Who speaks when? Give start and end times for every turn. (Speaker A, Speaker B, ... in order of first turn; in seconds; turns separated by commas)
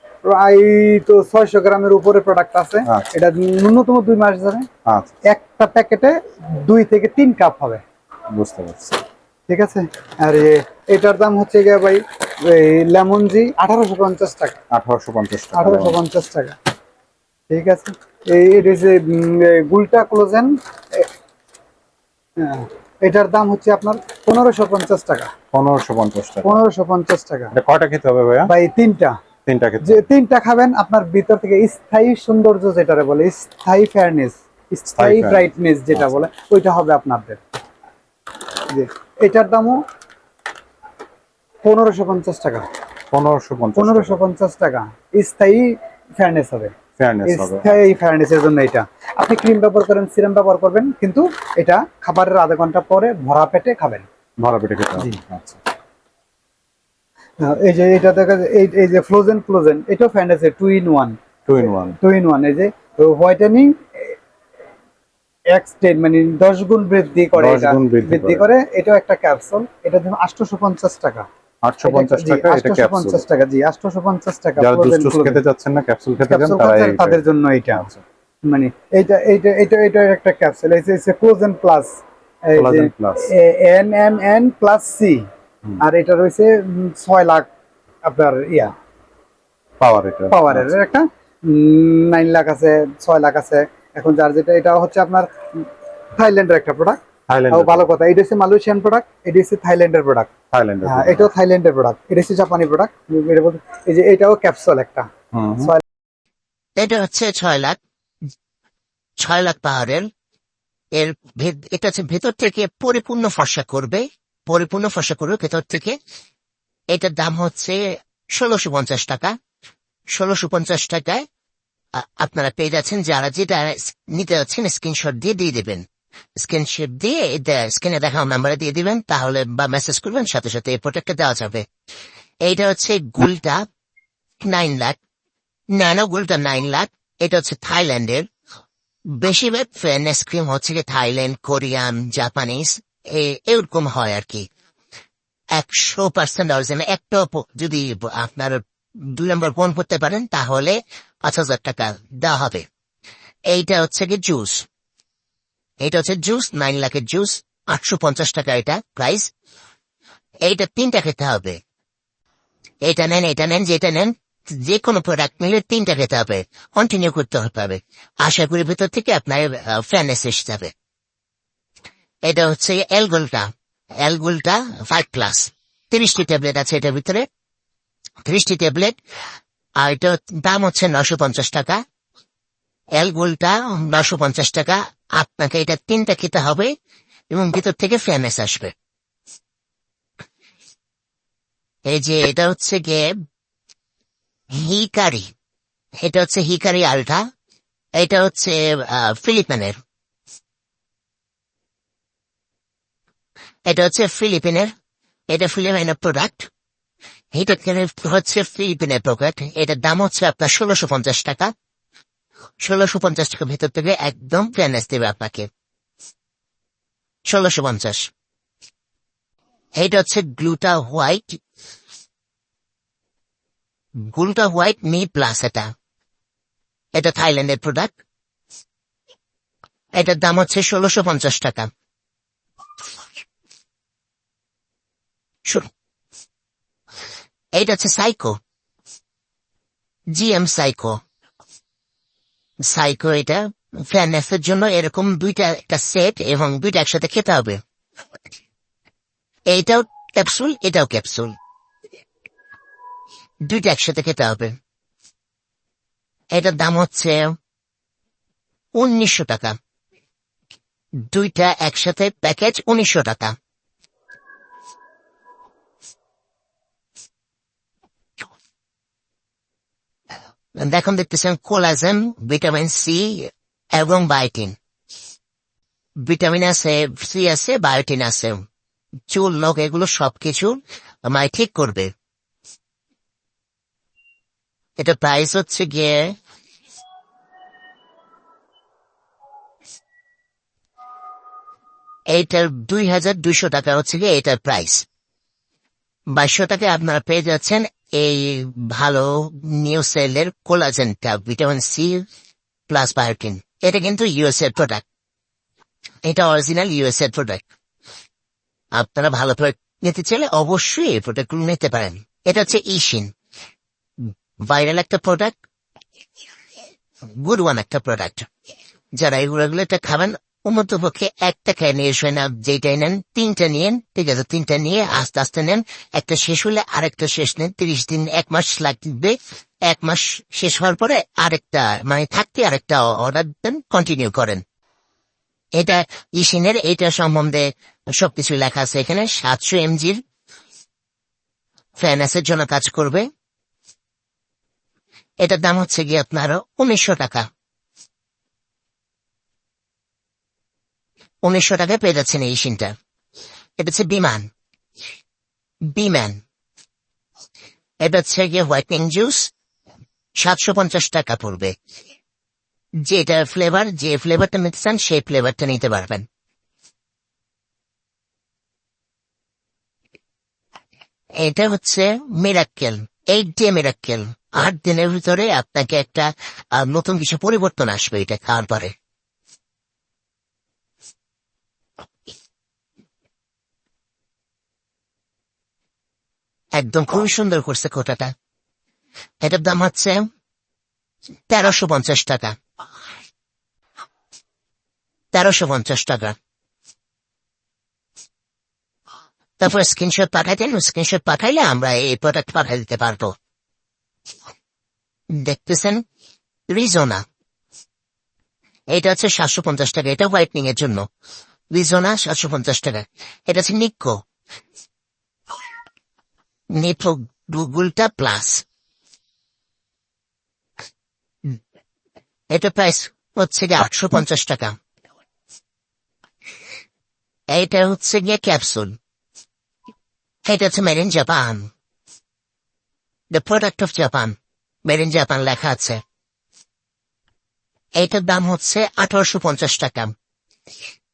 Speaker A: 0.2-4.7, Speaker B: 4.8-5.1, Speaker A: 5.3-7.8, Speaker B: 8.3-9.0, Speaker A: 9.5-14.6, Speaker B: 14.7-16.0, Speaker A: 15.5-16.6, Speaker A: 17.5-21.1, Speaker A: 22.4-25.3, Speaker B: 25.5-26.6, Speaker A: 26.4-27.5, Speaker B: 27.5-28.5, Speaker A: 28.4-29.1, Speaker B: 29.5-30.0, Speaker A: 29.8-37.4, Speaker B: 35.0-36.3, Speaker A: 38.7-39.8, Speaker A: 41.6-42.7, Speaker B: 43.1-44.2, Speaker A: 43.8-46.7, Speaker B: 47.0-47.8, Speaker A: 47.2-54.0, Speaker B: 54.4-55.6, Speaker A: 57.4-61.1, Speaker B: 61.5-62.0, Speaker A: 62.0-64.1, Speaker A: 65.5-71.2, Speaker B: 67.3-68.5, Speaker B: 71.6-73.2, Speaker A: 71.8-75.4, Speaker B: 74.6-77.2, Speaker A: 76.3-77.9, Speaker B: 77.7-78.0, Speaker A: 78.5-81.9, Speaker A: 82.5-85.2, Speaker B: 82.5-83.3, Speaker A: 85.8-87.5, Speaker A: 88.0-88.7, Speaker B: 89.8-90.7, Speaker A: 90.3-97.0, Speaker B: 97.3-97.9, Speaker A: 97.5-100.3, Speaker B: 100.5-101.3, Speaker A: 100.8-105.1, Speaker B: 105.3-105.7, Speaker C: 106.8-107.8, Speaker C: 109.2-110.1, Speaker C: 110.9-116.0, Speaker C: 116.9-119.3, Speaker C: 120.1-121.2, Speaker C: 121.9-131.7, Speaker C: 132.4-133.7, Speaker C: 134.4-135.0, Speaker C: 135.7-138.3, Speaker C: 139.1-144.5, Speaker C: 145.5-152.7, Speaker C: 153.5-154.7, Speaker C: 155.8-159.3, Speaker C: 160.4-161.6, Speaker C: 162.8-170.7, Speaker C: 172.2-177.3, Speaker C: 178.2-179.0, Speaker C: 179.8-181.8, Speaker C: 182.9-186.7, Speaker C: 187.3-188.7, Speaker C: 191.8-193.2, Speaker C: 194.5-195.3, Speaker C: 196.0-197.3, Speaker C: 197.9-199.8, Speaker C: 203.7-204.7, Speaker C: 205.3-206.5, Speaker C: 207.3-211.5, Speaker C: 212.6-215.5, Speaker C: 217.3-218.1, Speaker C: 219.8-221.4, Speaker C: 224.1-225.7, Speaker C: 226.9-228.0, Speaker C: 229.9-231.7, Speaker C: 237.5-238.4, Speaker C: 240.1-241.0, Speaker C: 242.6-247.6, Speaker C: 249.5-251.3, Speaker C: 253.4-254.6, Speaker C: 256.3-257.4, Speaker C: 258.7-259.6, Speaker C: 261.1-263.4, Speaker C: 270.6-274.6, Speaker C: 276.0-278.4, Speaker C: 279.1-281.9, Speaker C: 284.8-286.1, Speaker C: 292.1-294.9, Speaker C: 296.1-302.0, Speaker C: 302.7-304.8, Speaker C: 306.0-307.4, Speaker C: 308.7-313.1, Speaker C: 314.4-315.4, Speaker C: 317.1-318.3, Speaker C: 318.9-334.4, Speaker C: 335.5-340.0, Speaker C: 341.8-343.1, Speaker C: 345.2-347.3, Speaker C: 351.2-352.7, Speaker C: 353.6-354.3, Speaker C: 355.7-356.2, Speaker C: 357.8-359.3, Speaker C: 360.1-361.5, Speaker C: 362.8-366.1, Speaker C: 371.1-378.7, Speaker C: 386.5-388.1, Speaker C: 389.2-390.1, Speaker C: 391.3-392.4, Speaker C: 395.1-396.1, Speaker C: 399.4-403.1, Speaker C: 405.1-405.8, Speaker C: 406.5-407.0, Speaker C: 408.7-410.9, Speaker C: 411.5-414.0, Speaker C: 416.5-418.4, Speaker C: 422.3-424.6, Speaker C: 427.3-428.8, Speaker C: 430.2-431.5, Speaker C: 433.1-435.8, Speaker C: 437.7-439.9